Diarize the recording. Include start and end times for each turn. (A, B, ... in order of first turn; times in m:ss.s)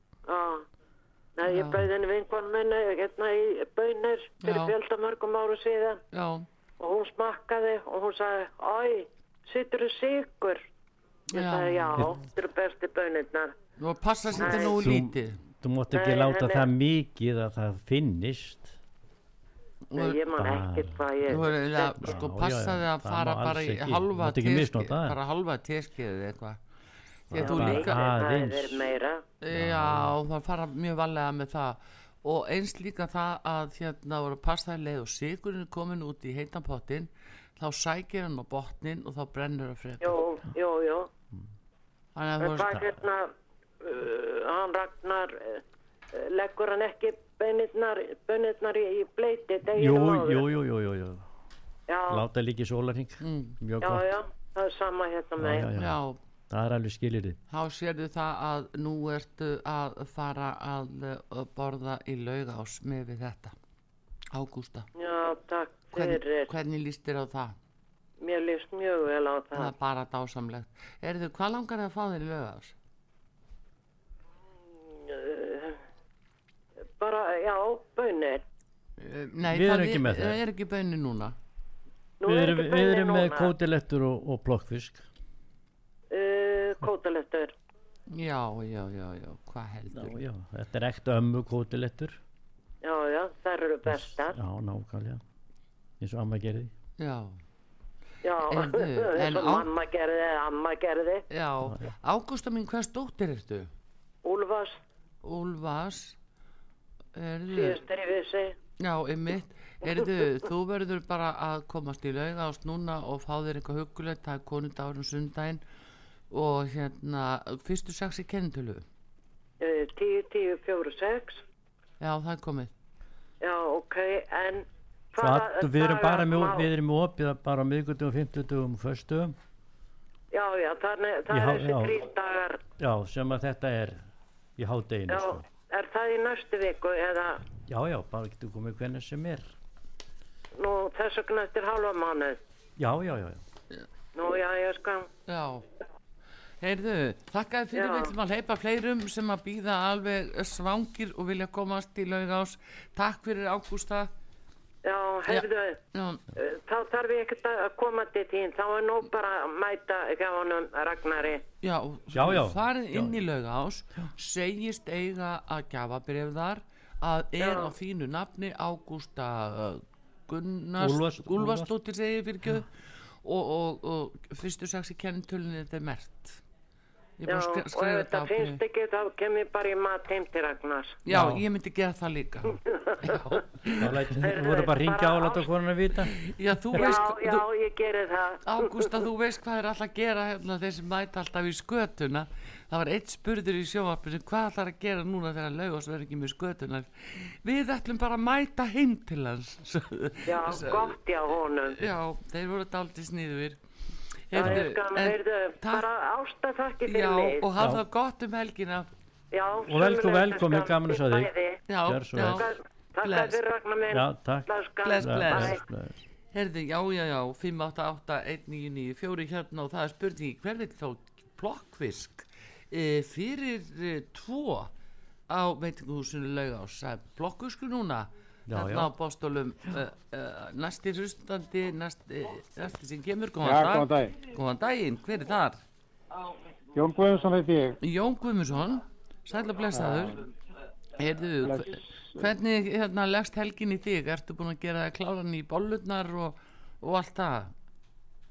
0:00.3-0:00.7 A
0:01.4-0:06.0 A
0:01.5-0:01.8 B
0:04.4-0:04.7 B
0:06.1-0:06.4 B
0:06.8-0:10.6 A
0:11.3-0:12.1 B
0:11.3-0:13.5 A
0:13.8-0:15.4 B
0:14.4-0:14.8 A
0:14.6-0:18.8 C
0:15.9-0:16.6 A
0:19.9-0:20.2 B
0:19.9-0:22.1 A
0:20.4-0:21.4 C
0:21.3-0:26.6 B
0:22.0-0:25.2 C
0:27.3-0:28.8 C
0:27.3-0:28.0 B
0:27.3-0:29.2 A
0:29.4-0:40.2 B
0:29.5-0:30.2 C
0:40.0-0:41.1 A
0:42.1-0:43.0 B
0:42.4-0:43.3 A
0:43.8-0:50.4 A
0:49.6-0:51.3 C
0:51.9-0:52.2 A
0:52.1-0:54.1 C
0:53.2-0:53.6 B
0:53.8-0:55.7 A
0:55.4-0:57.4 C
0:55.8-0:56.2 B
0:57.5-1:03.5 B
1:04.3-1:04.9 B
1:04.9-1:06.5 A
1:05.9-1:07.6 B
1:08.2-1:09.7 A
1:09.5-1:12.7 B
1:14.8-1:15.8 A
1:17.0-1:18.4 A
1:19.0-1:21.4 B
1:19.5-1:20.4 C
1:22.2-1:23.5 A
1:22.2-1:25.1 C
1:26.1-1:27.5 A
1:28.1-1:30.2 B
1:29.9-1:32.2 C
1:32.8-1:34.4 A
1:33.8-1:35.2 C
1:36.0-1:36.7 C
1:37.0-1:37.4 B
1:38.2-1:41.2 A
1:38.4-1:39.7 B
1:41.3-1:43.7 B
1:44.2-1:44.8 A
1:45.2-1:46.2 B
1:47.1-1:47.8 B
1:47.5-1:48.6 A
1:48.8-1:55.6 B
1:56.3-1:58.8 B
1:59.6-2:01.4 A
2:02.0-2:02.7 B
2:03.4-2:06.7 A
2:05.2-2:09.4 C
2:10.3-2:12.6 A
2:11.3-2:11.9 C
2:12.8-2:14.0 C
2:14.6-2:15.4 C
2:15.1-2:17.4 A
2:17.6-2:19.4 C
2:20.5-2:22.4 A
2:22.8-2:23.4 C
2:24.1-2:25.1 A
2:25.3-2:25.7 B
2:26.6-2:34.1 B
2:27.7-2:28.1 A
2:34.8-2:35.8 A
2:35.3-2:36.2 B
2:36.4-2:41.4 A
2:41.6-2:56.4 B
2:42.1-2:43.2 C
2:47.4-2:47.7 A
2:50.8-2:51.7 C
2:57.2-2:58.6 B
2:57.3-3:01.0 A
3:01.0-3:04.1 B
3:01.1-3:01.4 C
3:02.9-3:03.2 A
3:03.7-3:05.5 A
3:03.8-3:06.1 C
3:06.1-3:07.4 B
3:06.7-3:09.0 A
3:08.4-3:20.9 B
3:20.2-3:21.8 A
3:21.7-3:23.6 B
3:24.3-3:25.8 B
3:24.3-3:27.5 A
3:26.8-3:28.9 B
3:29.3-3:31.6 A
3:29.6-3:31.3 C
3:31.7-3:32.5 B
3:31.8-3:32.5 C
3:32.2-3:35.6 A
3:33.0-3:33.4 B
3:33.9-3:36.0 C
3:34.8-3:35.6 B
3:36.3-3:44.7 B
3:45.3-3:55.6 B
3:48.5-3:48.9 C
3:53.4-3:54.1 D
3:56.7-3:57.8 D
3:57.8-4:00.3 B
3:59.7-4:00.2 D
4:01.0-4:07.5 B
4:01.4-4:01.9 D